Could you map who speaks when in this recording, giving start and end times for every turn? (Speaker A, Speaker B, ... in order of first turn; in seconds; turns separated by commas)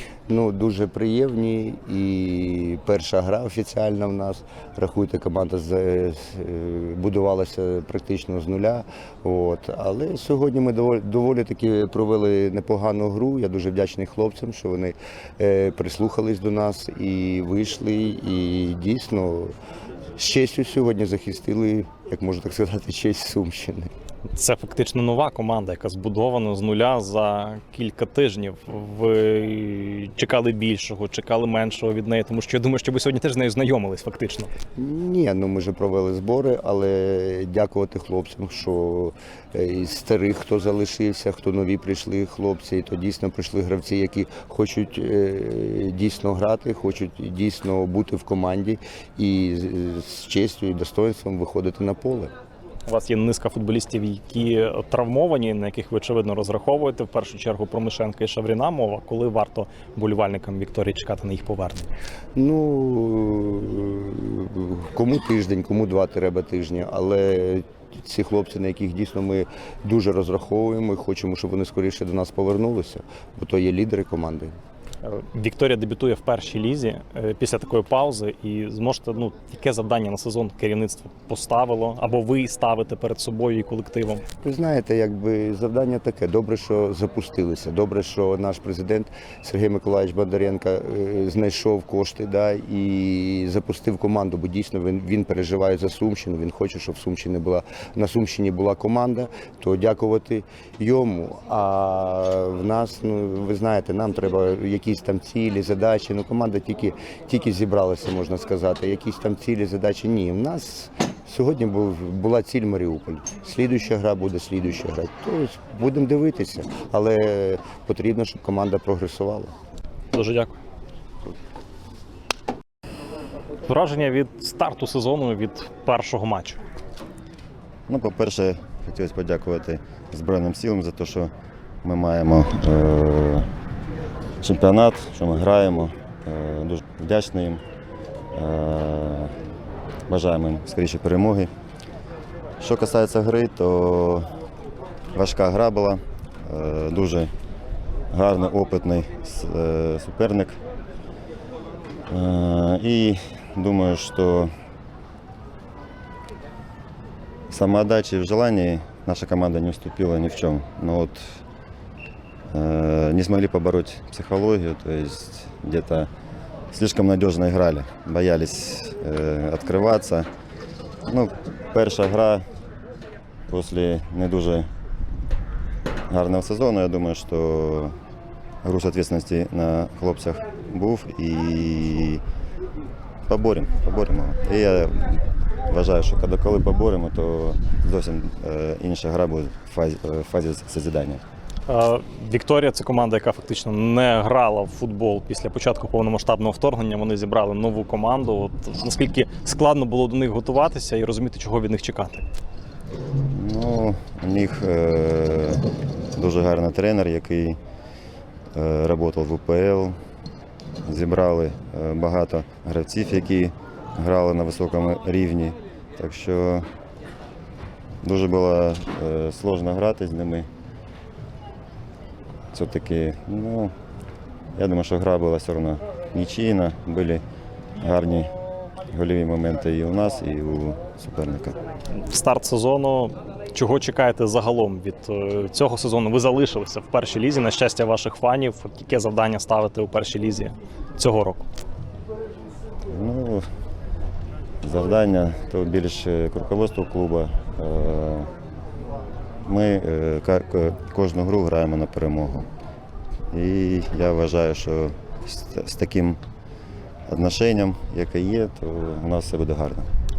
Speaker A: 0.3-19.5, Speaker A: 20.2-23.9, Speaker B: 24.3-34.5, Speaker A: 34.8-52.3, Speaker B: 52.9-61.9, Speaker A: 62.3-74.5, Speaker B: 75.0-84.2, Speaker A: 84.4-119.5, Speaker B: 120.1-120.5, Speaker B: 123.7-126.6, Speaker C: 127.9-131.3, Speaker C: 131.8-133.5, Speaker C: 134.4-137.6, Speaker C: 138.3-139.3, Speaker C: 140.1-141.5, Speaker C: 142.6-144.3, Speaker C: 145.1-147.3, Speaker C: 148.1-150.6, Speaker C: 152.1-154.5, Speaker C: 157.5-161.4, Speaker C: 162.5-166.1, Speaker C: 166.7-170.3, Speaker C: 171.1-172.4, Speaker C: 173.5-174.7, Speaker C: 176.1-177.9, Speaker C: 178.6-182.2, Speaker C: 183.3-191.2, Speaker B: 191.7-202.2, Speaker C: 203.3-205.6, Speaker C: 206.1-207.6, Speaker C: 208.5-209.9, Speaker C: 210.8-216.7, Speaker C: 218.0-220.5, Speaker C: 222.5-223.7, Speaker C: 224.6-227.2, Speaker C: 227.8-228.3, Speaker C: 228.9-231.6, Speaker B: 231.9-241.4, Speaker C: 242.9-243.4, Speaker C: 244.6-248.3, Speaker C: 249.4-252.5, Speaker C: 253.3-256.2, Speaker C: 257.1-259.9